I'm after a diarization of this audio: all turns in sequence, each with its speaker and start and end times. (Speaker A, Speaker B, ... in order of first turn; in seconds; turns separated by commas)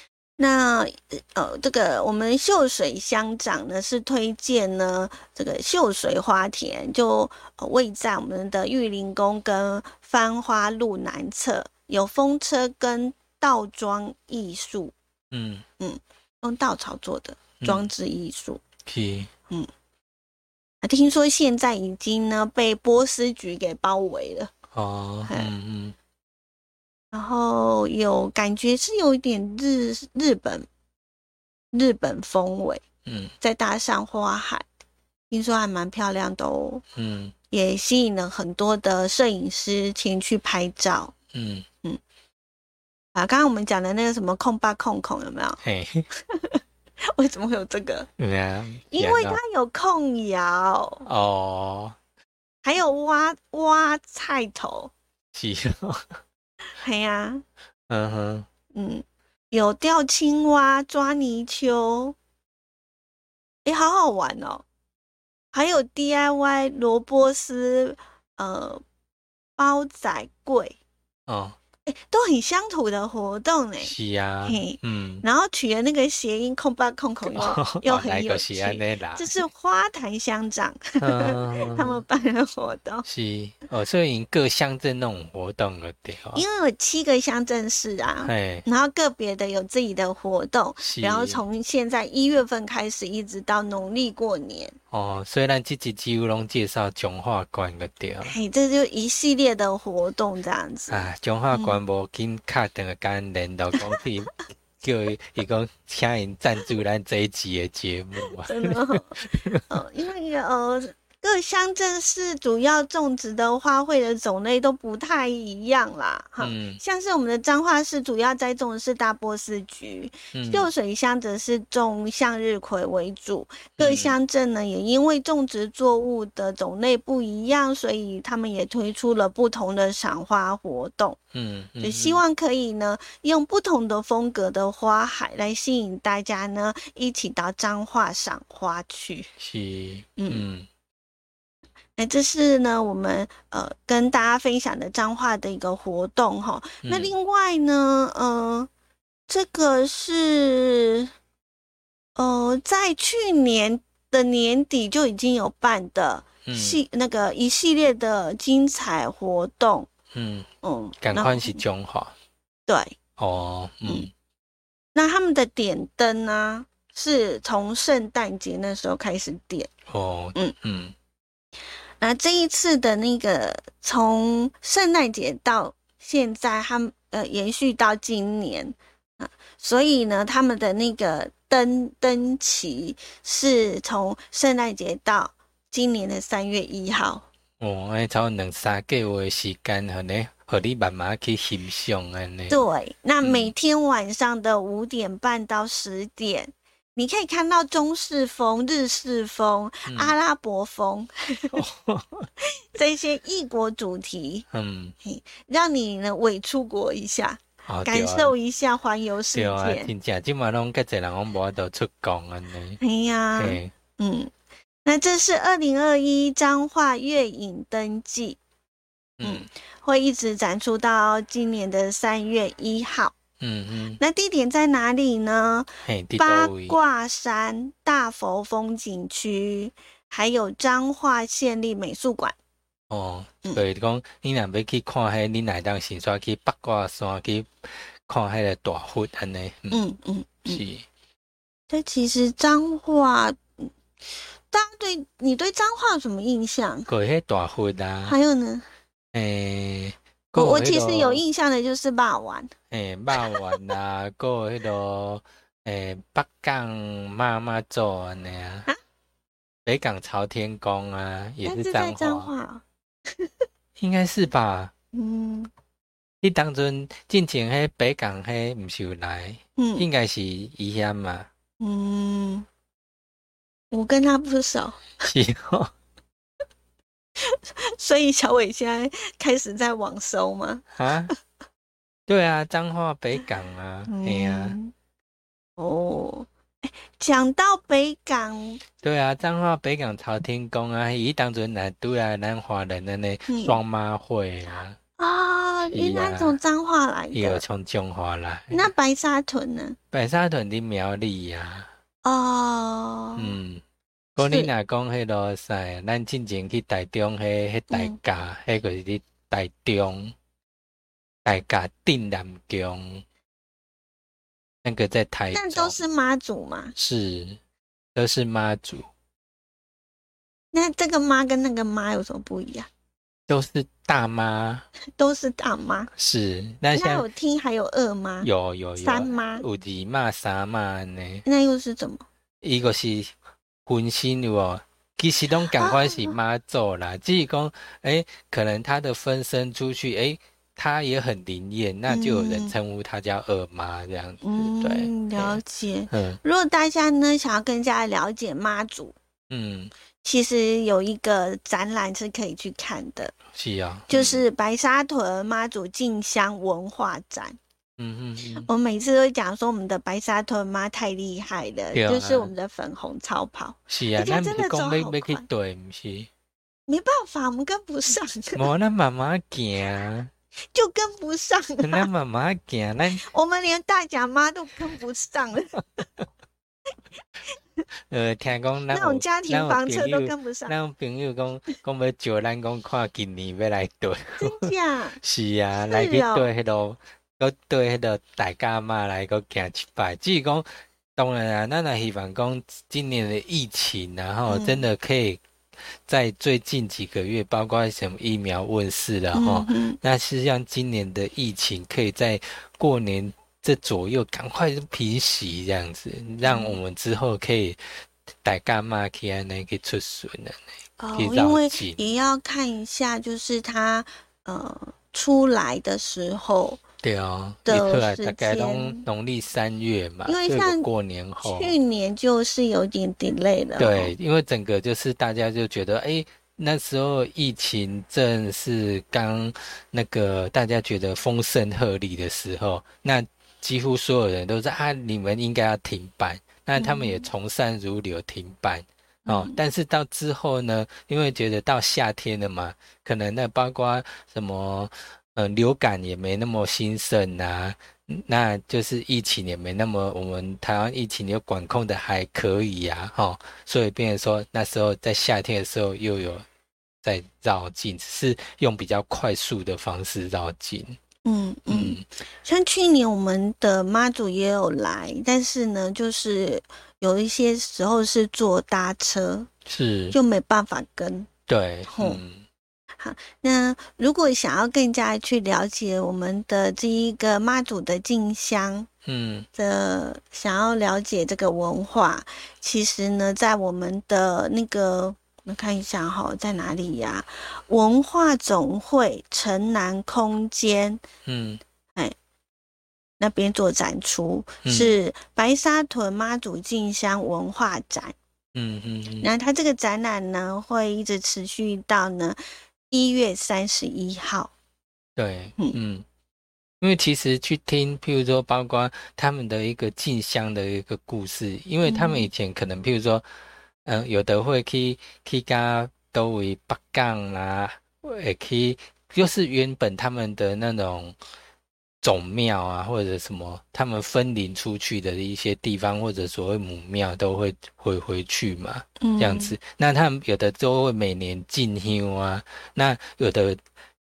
Speaker A: 0.4-14.9, Speaker B: 15.3-15.7, Speaker A: 15.8-18.6, Speaker B: 17.6-17.9, Speaker B: 18.9-19.3, Speaker A: 20.8-24.5, Speaker B: 24.7-25.9, Speaker A: 27.1-30.7, Speaker A: 31.7-32.8, Speaker B: 33.1-33.3, Speaker A: 33.4-34.7, Speaker A: 35.3-36.8, Speaker B: 37.0-37.3, Speaker A: 37.5-41.1, Speaker B: 41.3-41.7, Speaker A: 43.1-45.6, Speaker B: 45.6-46.1, Speaker A: 46.3-46.6, Speaker A: 47.1-48.1, Speaker B: 48.2-49.4, Speaker A: 48.9-51.0, Speaker B: 51.0-52.0, Speaker A: 52.6-54.9, Speaker B: 55.3-56.0, Speaker A: 56.8-57.4, Speaker B: 57.9-58.5, Speaker A: 58.7-62.2, Speaker A: 63.6-64.7, Speaker A: 65.5-68.8, Speaker A: 69.6-70.8, Speaker B: 71.3-71.6, Speaker A: 71.9-73.9, Speaker B: 73.8-75.2, Speaker A: 74.5-83.0, Speaker B: 77.3-79.3, Speaker B: 81.0-82.0, Speaker B: 83.0-86.5, Speaker A: 86.3-94.8, Speaker B: 88.2-88.7, Speaker B: 90.8-91.4, Speaker B: 94.9-98.4, Speaker A: 98.2-101.8, Speaker B: 100.9-109.6, Speaker A: 108.4-131.2, Speaker B: 116.4-116.8, Speaker B: 120.3-120.7, Speaker B: 123.8-124.1, Speaker B: 131.3-132.2, Speaker A: 131.8-139.3, Speaker B: 139.4-140.7, Speaker A: 140.2-140.4, Speaker A: 142.0-148.7, Speaker B: 146.8-147.1, Speaker A: 149.3-151.1, Speaker A: 152.2-159.9, Speaker B: 156.4-156.8, Speaker B: 160.1-160.5, Speaker A: 160.6-161.6, Speaker B: 161.0-162.1, Speaker A: 162.7-163.0, Speaker B: 163.2-164.1, Speaker A: 164.9-169.7, Speaker B: 169.9-170.9, Speaker A: 172.0-187.3, Speaker B: 187.6-192.7, Speaker A: 192.5-201.6, Speaker B: 193.2-193.5, Speaker B: 199.9-200.2, Speaker B: 201.5-202.3, Speaker A: 202.7-204.5, Speaker B: 204.5-204.9, Speaker A: 205.0-209.9, Speaker B: 207.7-208.3, Speaker B: 209.3-212.8, Speaker A: 212.8-214.3, Speaker B: 213.4-213.7, Speaker A: 214.8-218.4, Speaker B: 219.2-219.5, Speaker A: 219.2-223.2, Speaker B: 223.4-224.0, Speaker A: 224.0-232.4, Speaker B: 225.8-226.8, Speaker B: 232.9-239.8, Speaker A: 239.7-240.6, Speaker B: 240.5-240.9, Speaker A: 241.7-243.4, Speaker A: 244.5-246.9, Speaker B: 246.9-248.2, Speaker A: 248.1-248.7, Speaker B: 249.1-251.2, Speaker A: 250.3-252.5, Speaker B: 252.7-258.7, Speaker A: 253.2-253.7, Speaker B: 259.7-262.3, Speaker A: 261.4-262.6, Speaker B: 263.8-264.7, Speaker A: 264.9-265.5, Speaker B: 266.2-271.3, Speaker A: 269.6-269.9, Speaker A: 271.6-272.5, Speaker A: 273.7-275.1, Speaker B: 275.1-275.7, Speaker A: 277.3-280.7, Speaker B: 280.8-281.1, Speaker B: 282.1-284.6, Speaker A: 283.9-284.7, Speaker A: 285.6-288.6, Speaker B: 288.8-294.8, Speaker A: 293.3-293.6, Speaker A: 295.0-297.4, Speaker B: 295.6-296.4, Speaker B: 297.1-298.7, Speaker A: 298.5-299.8, Speaker B: 299.9-301.7, Speaker A: 302.0-303.4, Speaker B: 303.2-303.6, Speaker B: 304.2-310.1, Speaker A: 304.2-304.5, Speaker A: 307.7-308.0, Speaker B: 311.2-313.0, Speaker B: 314.6-315.8, Speaker A: 315.3-316.8, Speaker B: 316.8-317.4, Speaker B: 317.9-318.9, Speaker A: 320.5-322.7, Speaker B: 323.3-324.7, Speaker A: 325.0-325.9, Speaker B: 326.0-327.1, Speaker A: 326.7-328.3, Speaker B: 328.2-331.2, Speaker A: 328.8-329.4, Speaker A: 331.2-332.1, Speaker B: 332.4-333.1, Speaker B: 333.7-345.4, Speaker A: 335.6-336.2, Speaker A: 341.9-342.5, Speaker A: 344.2-349.0, Speaker B: 345.9-346.2, Speaker B: 349.3-349.7, Speaker A: 350.0-353.1, Speaker B: 353.3-354.2, Speaker A: 353.9-357.4, Speaker B: 357.8-358.5, Speaker A: 358.4-365.3, Speaker B: 361.7-362.3, Speaker B: 363.7-366.1, Speaker A: 366.7-368.4, Speaker B: 368.4-370.1, Speaker A: 370.5-371.9, Speaker B: 371.6-373.0, Speaker A: 372.9-375.8, Speaker B: 377.9-384.5, Speaker A: 378.7-380.6, Speaker A: 384.2-385.0, Speaker B: 385.0-390.5, Speaker A: 385.7-386.3, Speaker B: 391.0-395.2, Speaker A: 394.3-394.6, Speaker B: 395.9-407.6, Speaker A: 399.1-399.8, Speaker A: 406.2-406.6, Speaker B: 408.2-410.4, Speaker A: 410.8-416.6, Speaker B: 410.9-411.8, Speaker B: 416.8-421.6, Speaker A: 417.5-418.9, Speaker A: 420.1-420.7, Speaker A: 421.2-423.9, Speaker B: 423.6-456.2, Speaker A: 436.6-437.1, Speaker A: 439.1-439.4, Speaker B: 456.8-460.8, Speaker A: 461.1-469.3, Speaker B: 461.5-461.9, Speaker B: 469.5-470.0, Speaker A: 469.9-471.1, Speaker B: 471.3-472.2, Speaker A: 471.7-472.0, Speaker A: 472.8-478.7, Speaker B: 478.9-479.3, Speaker A: 479.4-490.8, Speaker B: 491.1-491.4, Speaker A: 493.0-497.9, Speaker B: 494.4-494.8, Speaker B: 498.4-499.1, Speaker A: 499.0-502.2, Speaker A: 502.7-504.3, Speaker B: 505.0-505.9, Speaker B: 506.6-513.0, Speaker A: 511.6-512.1, Speaker B: 513.6-521.0, Speaker B: 521.8-533.4, Speaker A: 528.8-529.4